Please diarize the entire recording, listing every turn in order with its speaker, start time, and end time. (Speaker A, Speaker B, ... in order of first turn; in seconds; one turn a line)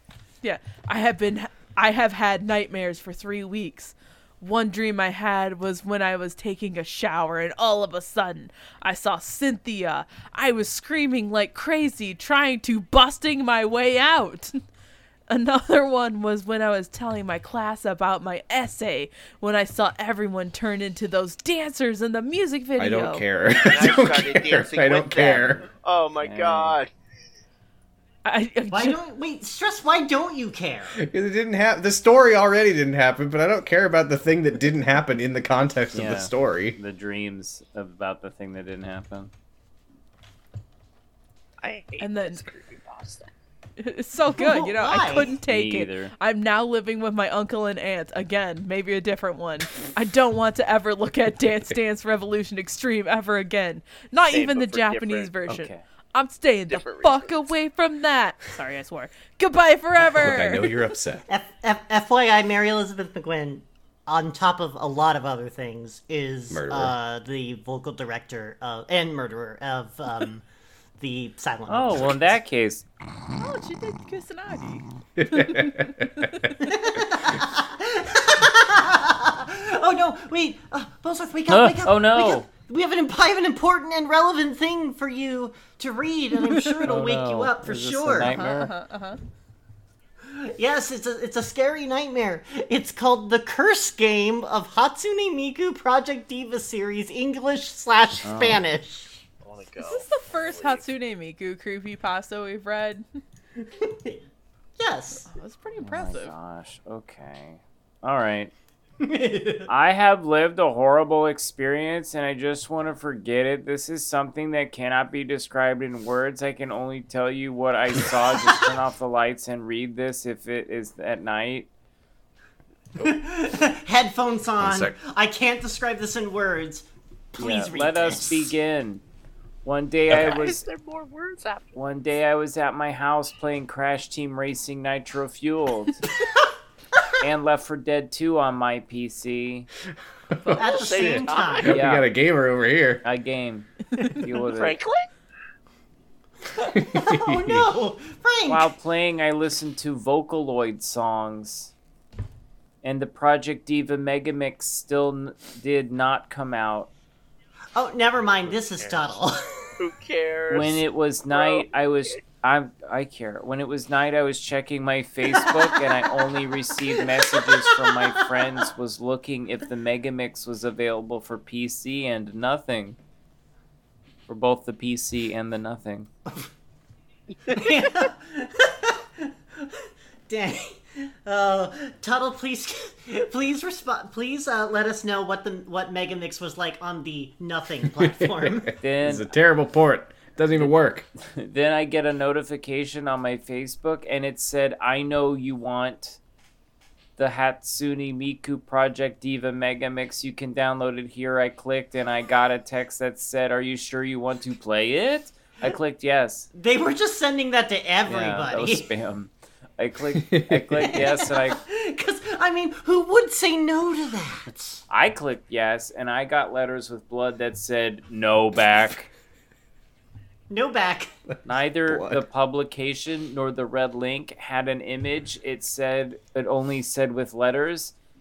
Speaker A: 0.4-14.6
Speaker A: 15.3-23.3
Speaker B: 22.8-25.7
Speaker C: 23.5-26.9
Speaker D: 26.2-26.8
Speaker A: 28.2-29.0
Speaker E: 28.7-31.0
Speaker B: 30.9-36.8
Speaker D: 35.9-39.3
Speaker F: 41.6-42.1
Speaker A: 42.0-42.4
Speaker C: 42.2-43.3
Speaker F: 42.9-43.2
Speaker A: 43.8-60.8
Speaker E: 44.4-45.3
Speaker D: 45.5-46.1
Speaker C: 54.3-55.3
Speaker D: 55.5-55.8
Speaker C: 56.7-57.5
Speaker B: 60.0-61.2
Speaker E: 61.3-70.4
Speaker B: 66.5-66.9
Speaker E: 71.0-72.3
Speaker D: 71.7-72.8
Speaker A: 73.4-76.5
Speaker B: 75.2-76.4
Speaker E: 76.6-88.4
Speaker D: 81.5-82.5
Speaker D: 86.8-88.7
Speaker A: 88.3-89.2
Speaker E: 90.3-99.2
Speaker D: 98.2-98.6
Speaker C: 99.4-100.9
Speaker A: 99.8-103.0
Speaker E: 103.8-104.2
Speaker E: 104.8-105.3
Speaker A: 105.2-106.3
Speaker D: 105.8-108.5
Speaker E: 109.0-109.7
Speaker D: 109.7-121.7
Speaker E: 123.0-128.6
Speaker B: 124.6-124.9
Speaker D: 127.3-129.0
Speaker D: 129.6-130.6
Speaker F: 130.1-131.8
Speaker D: 131.7-136.0
Speaker D: 137.2-139.7
Speaker B: 140.3-143.0
Speaker E: 140.6-141.8
Speaker C: 140.6-141.8
Speaker D: 141.6-142.1
Speaker D: 143.0-144.8
Speaker C: 144.4-145.1
Speaker E: 146.6-148.7
Speaker B: 146.9-147.6
Speaker D: 148.5-151.7
Speaker D: 152.8-156.9
Speaker E: 157.7-159.6
Speaker C: 158.4-159.2
Speaker C: 159.8-162.2
Speaker D: 160.5-173.0
Speaker D: 174.3-176.1
Speaker E: 177.5-188.7
Speaker B: 187.9-191.1
Speaker D: 188.8-189.3
Speaker D: 190.6-196.2
Speaker D: 197.2-206.5
Speaker E: 206.5-208.9
Speaker D: 208.1-211.6
Speaker B: 210.1-210.9
Speaker E: 210.8-214.8
Speaker D: 214.9-219.1
Speaker E: 220.5-221.1
Speaker D: 221.4-227.9
Speaker B: 221.8-222.2